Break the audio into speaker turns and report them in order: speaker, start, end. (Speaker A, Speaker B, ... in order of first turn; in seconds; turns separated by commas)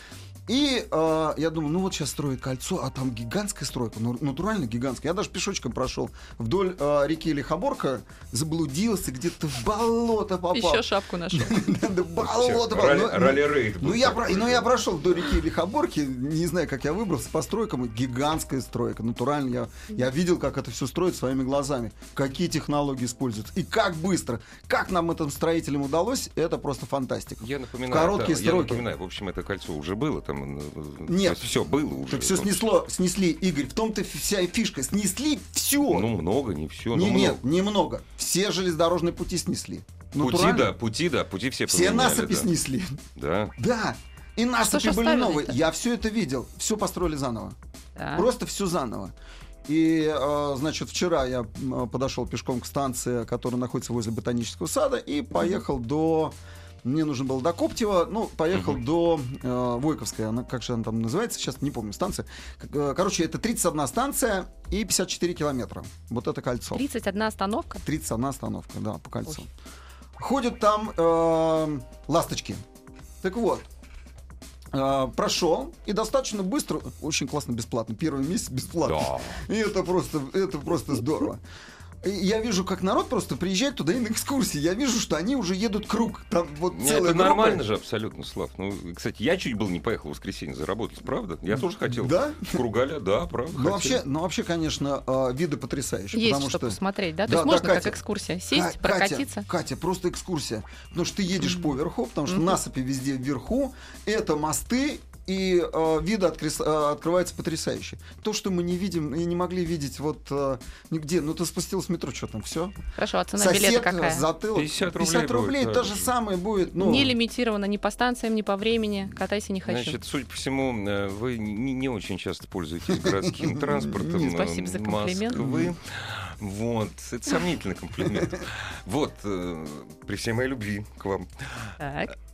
Speaker A: 0.5-28.8, Speaker B: 10.5-11.6, Speaker C: 12.2-14.7, Speaker C: 27.4-32.6, Speaker A: 31.1-31.5, Speaker A: 32.1-36.1, Speaker C: 35.8-37.4, Speaker A: 36.9-40.7, Speaker C: 40.2-42.5, Speaker A: 41.7-43.0, Speaker C: 43.1-43.5, Speaker A: 43.6-47.5, Speaker B: 44.6-45.6, Speaker B: 48.0-48.3, Speaker A: 48.1-49.1, Speaker A: 49.6-66.8, Speaker C: 58.5-58.8, Speaker B: 66.7-67.8, Speaker A: 67.8-69.5, Speaker A: 70.2-72.6, Speaker A: 73.2-73.7, Speaker A: 74.7-81.4, Speaker C: 78.8-79.4, Speaker A: 82.0-87.6, Speaker C: 86.7-94.0, Speaker A: 91.5-92.6, Speaker A: 93.5-98.0, Speaker B: 96.1-99.5, Speaker A: 98.5-112.7, Speaker B: 101.4-101.7, Speaker B: 102.3-102.6, Speaker B: 112.9-114.3, Speaker A: 113.3-117.1, Speaker C: 114.5-116.1, Speaker B: 116.7-120.0, Speaker C: 119.6-131.8, Speaker A: 122.9-124.1, Speaker B: 124.1-125.4, Speaker A: 125.3-125.7, Speaker B: 131.8-132.1